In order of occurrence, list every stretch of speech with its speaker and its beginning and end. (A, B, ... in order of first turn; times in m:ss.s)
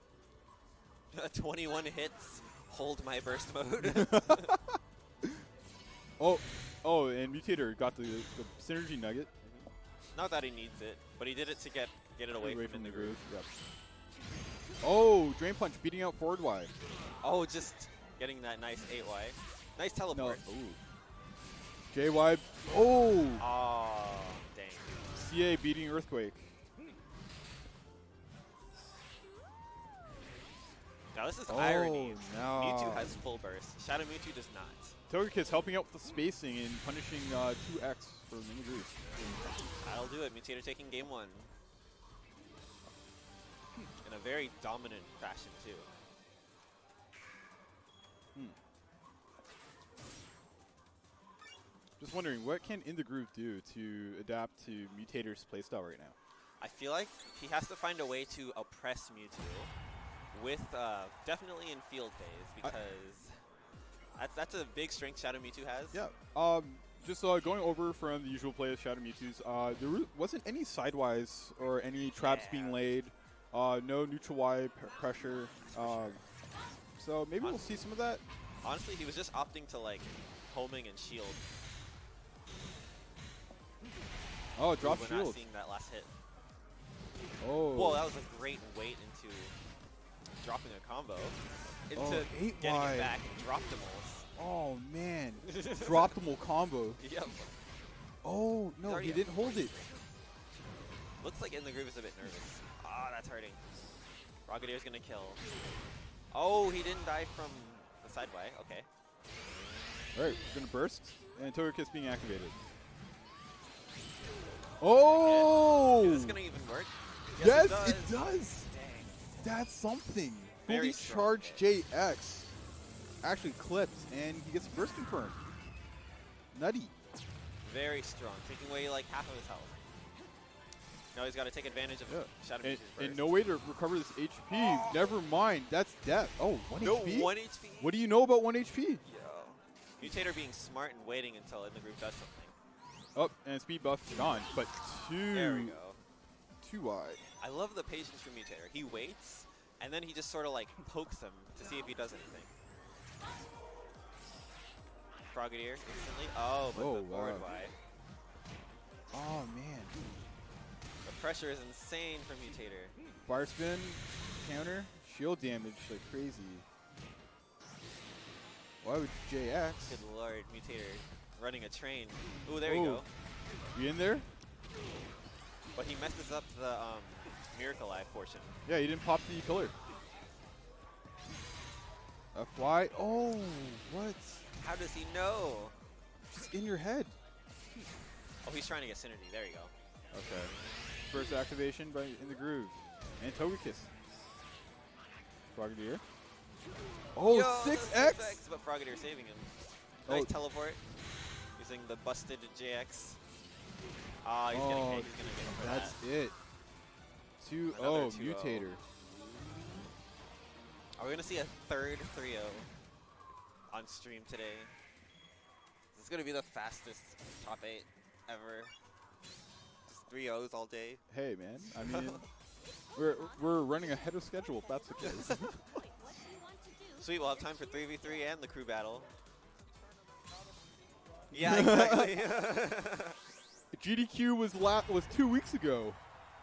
0:01.1-0:04.6 A
0:03.8-0:05.3 B
0:06.2-0:09.3 B
0:09.4-0:13.2 A
0:12.3-0:13.5 B
0:14.8-0:16.7 B
0:17.2-0:20.4 A
0:20.1-0:20.8 B
0:21.9-0:23.4 B
0:23.4-0:25.0 A
0:25.1-0:26.5 B
0:31.1-0:35.0 A
0:31.5-0:33.2 B
0:35.1-0:38.9 B
0:39.8-0:41.5 A
0:44.0-0:45.9 A
0:52.0-0:56.1 B
0:56.6-0:59.7 A
1:00.3-1:03.4 A
1:04.1-1:06.0 A
1:05.9-1:16.2 B
1:12.2-1:12.8 A
1:15.6-1:16.2 A
1:17.0-1:18.2 B
1:17.4-1:17.7 A
1:18.6-1:21.4 A
1:24.6-1:25.4 B
1:24.8-1:26.1 A
1:27.4-1:28.1 B
1:27.7-1:29.5 A
1:30.4-1:34.2 A
1:31.9-1:33.1 B
1:34.4-1:37.0 B
1:35.4-1:36.2 A
1:37.0-1:37.5 A
1:38.2-1:39.7 B
1:38.8-1:40.0 A
1:41.2-1:43.6 A
1:44.4-1:45.4 A
1:46.3-1:48.9 A
1:50.1-1:52.6 B
1:54.8-1:56.4 B
1:55.1-1:59.3 A
1:57.4-1:58.7 B
1:59.4-2:02.5 B
2:00.6-2:01.6 A
2:03.2-2:05.4 B
2:06.5-2:06.9 B
2:07.6-2:09.8 A
2:11.1-2:13.3 A
2:12.1-2:19.0 B
2:14.6-2:15.0 A
2:16.8-2:18.0 A
2:19.0-2:22.5 A
2:23.1-2:25.8 B
2:25.3-2:26.0 A
2:26.6-2:27.3 B
2:27.4-2:32.5 A
2:35.3-2:37.7 A
2:36.7-2:37.5 B
2:39.1-2:40.0 B
2:41.0-2:42.9 A
2:43.2-2:46.6 B
2:48.8-2:50.0 B
2:49.8-2:53.1 A
2:52.6-2:53.0 B
2:53.7-2:54.3 B
2:55.7-2:58.6 A
2:58.6-2:59.7 B
3:02.3-3:04.4 B
3:04.6-3:05.7 A
3:06.3-3:07.2 B
3:08.4-3:09.7 A
3:10.1-3:10.5 B
3:11.1-3:13.9 B
3:15.5-3:16.0 B
3:17.1-3:18.4 B
3:17.2-3:19.5 A
3:20.0-3:20.8 A
3:20.1-3:20.3 B
3:21.6-3:23.2 A
3:24.2-3:26.0 A
3:24.5-3:26.4 B
3:27.4-3:28.8 B
3:27.7-3:28.7 A
3:31.0-3:32.7 A
3:33.7-3:34.7 A
3:35.9-3:38.7 A
3:39.9-3:41.0 A
3:41.1-3:42.2 B
3:41.8-3:42.2 A
3:42.9-3:45.6 B
3:45.1-3:45.4 A
3:47.0-3:49.1 A
3:51.3-3:53.2 A
3:51.4-3:52.2 B
3:53.7-3:56.0 B